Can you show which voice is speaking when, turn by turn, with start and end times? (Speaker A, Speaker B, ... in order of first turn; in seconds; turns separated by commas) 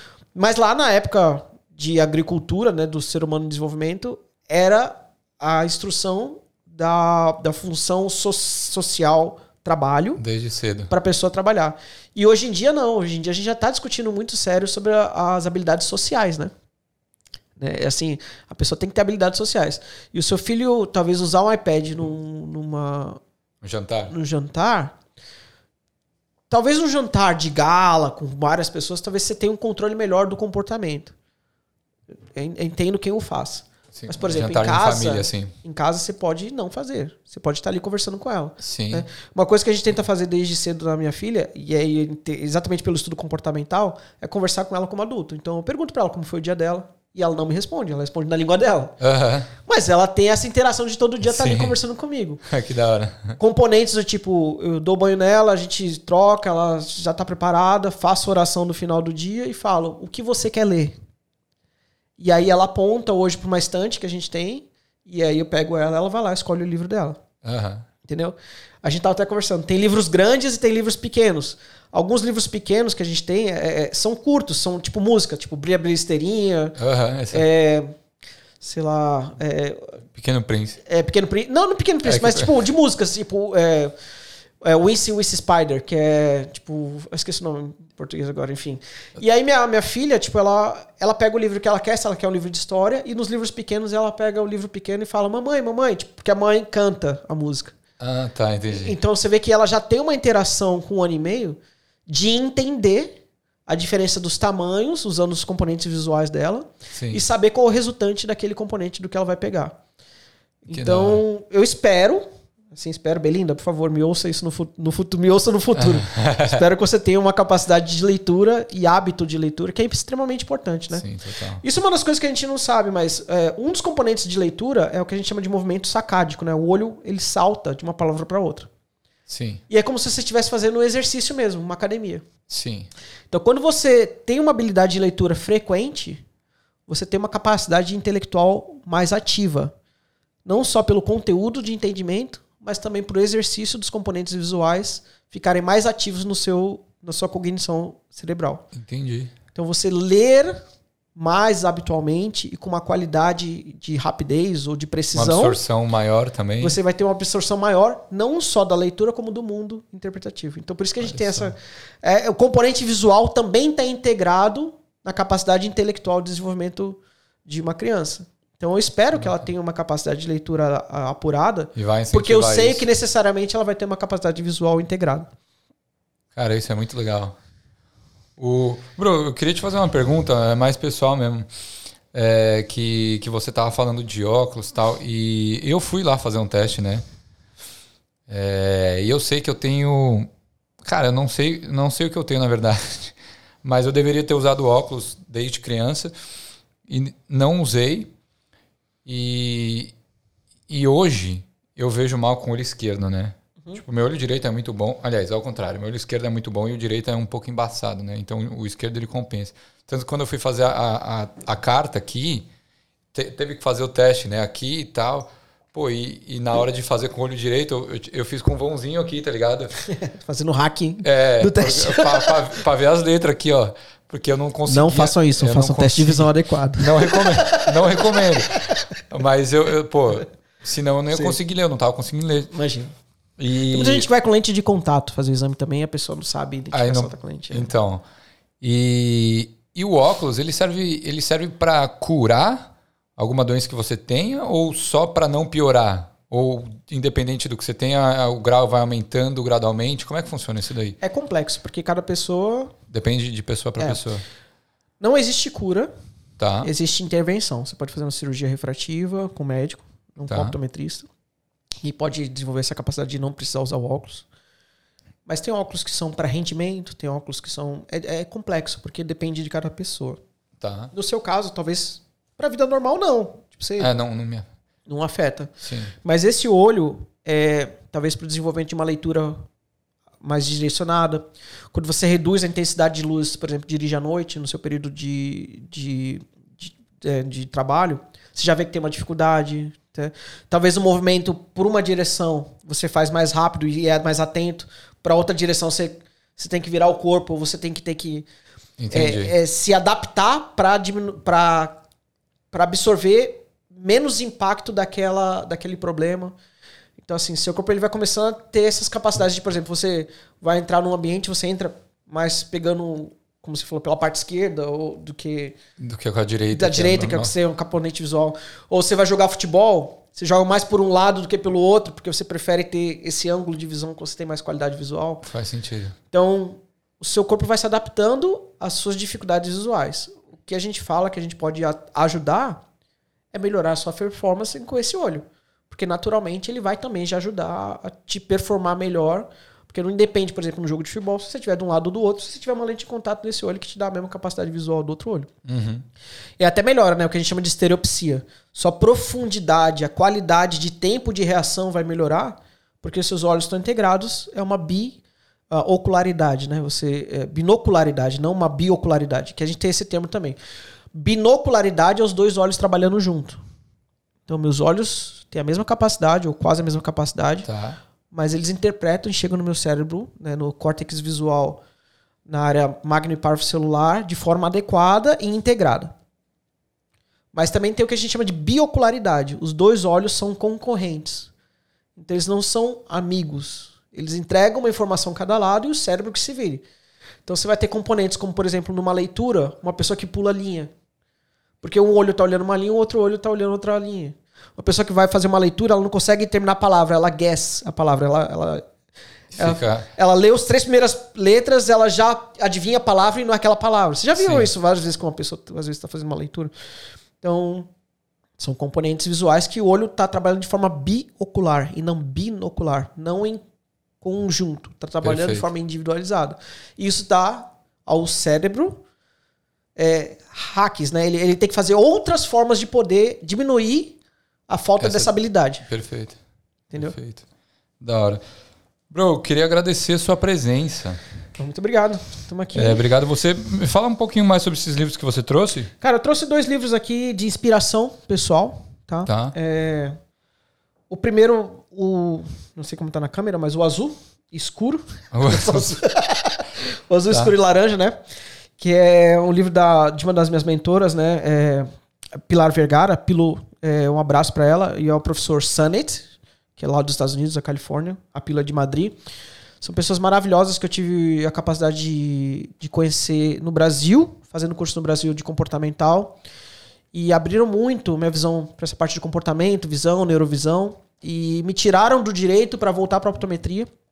Speaker A: 0.3-10.2, Speaker B: 10.2-10.9, Speaker A: 10.9-16.5, Speaker A: 17.6-23.2, Speaker B: 23.6-24.1, Speaker A: 24.1-25.0, Speaker A: 26.5-31.1, Speaker A: 32.3-49.0, Speaker B: 34.0-35.5, Speaker B: 38.6-39.1, Speaker B: 49.0-49.5, Speaker A: 49.6-52.4, Speaker B: 51.2-51.8, Speaker B: 52.5-53.4, Speaker A: 53.4-61.0, Speaker A: 62.2-67.2, Speaker B: 67.4-67.9, Speaker A: 68.0-76.8, Speaker B: 76.8-77.5, Speaker A: 77.3-78.0, Speaker A: 78.6-80.0, Speaker B: 80.2-80.8, Speaker A: 80.9-83.9, Speaker B: 82.0-82.5, Speaker A: 84.6-97.8, Speaker B: 98.0-99.0, Speaker A: 98.7-109.8, Speaker B: 106.9-107.2, Speaker A: 110.7-121.0, Speaker B: 110.7-111.2, Speaker B: 115.8-116.6, Speaker B: 120.9-121.6, Speaker A: 121.6-128.7, Speaker B: 129.3-129.6, Speaker A: 129.7-132.3, Speaker B: 132.5-132.9, Speaker A: 133.3-136.2, Speaker A: 136.9-139.7, Speaker A: 140.4-148.7, Speaker B: 148.7-149.3, Speaker A: 149.5-150.6, Speaker A: 151.2-155.6, Speaker B: 155.1-156.8, Speaker A: 156.6-175.3, Speaker B: 161.0-161.5, Speaker B: 171.8-172.9, Speaker B: 176.3-177.4, Speaker B: 178.4-181.5, Speaker B: 182.1-187.0, Speaker B: 188.3-190.3, Speaker B: 190.8-196.1, Speaker B: 196.9-198.1, Speaker B: 199.1-199.9, Speaker B: 200.7-212.5, Speaker B: 213.1-219.7, Speaker A: 219.9-222.5, Speaker B: 221.0-232.5, Speaker A: 224.7-228.9, Speaker A: 231.1-231.4, Speaker A: 232.5-232.9, Speaker B: 233.4-234.1, Speaker A: 233.7-237.7, Speaker B: 236.7-238.0, Speaker B: 238.6-251.0, Speaker A: 251.0-252.8, Speaker B: 252.9-254.2, Speaker A: 255.0-255.9, Speaker B: 256.4-256.7, Speaker A: 256.6-261.1, Speaker B: 260.3-260.5, Speaker A: 261.8-264.3, Speaker A: 265.3-270.2, Speaker B: 270.6-270.9, Speaker A: 270.9-273.9, Speaker B: 273.8-274.5, Speaker A: 274.9-275.5, Speaker B: 275.6-275.9, Speaker A: 276.0-279.4, Speaker A: 280.2-298.3, Speaker B: 298.8-299.3, Speaker A: 298.9-301.8, Speaker A: 302.5-306.4, Speaker A: 307.0-315.6, Speaker B: 315.8-317.3, Speaker A: 316.5-325.2, Speaker B: 325.2-325.9, Speaker A: 326.1-332.6, Speaker A: 333.3-345.3, Speaker B: 345.4-345.9, Speaker A: 346.4-355.0, Speaker A: 355.5-360.4, Speaker A: 360.9-363.4, Speaker A: 364.3-367.5, Speaker B: 367.4-367.8, Speaker A: 368.1-371.6, Speaker A: 372.3-375.9, Speaker A: 377.3-381.3, Speaker A: 382.0-386.6, Speaker A: 387.3-390.7, Speaker A: 391.6-398.6, Speaker B: 399.3-399.9, Speaker A: 399.4-406.5, Speaker B: 404.2-404.5, Speaker A: 407.2-407.7, Speaker A: 408.4-413.4, Speaker A: 414.0-418.8, Speaker B: 415.0-415.4, Speaker A: 419.8-424.0, Speaker A: 424.5-425.7, Speaker B: 424.8-425.1, Speaker B: 425.6-426.2, Speaker B: 426.8-427.2, Speaker B: 427.8-428.2, Speaker B: 428.9-431.0, Speaker A: 431.4-432.8, Speaker B: 432.6-435.7, Speaker A: 435.8-440.0, Speaker B: 439.1-439.3, Speaker A: 440.9-448.0, Speaker B: 445.1-445.7, Speaker A: 448.6-451.7, Speaker A: 452.3-456.1, Speaker A: 456.6-458.9, Speaker A: 459.6-466.2, Speaker A: 466.9-473.7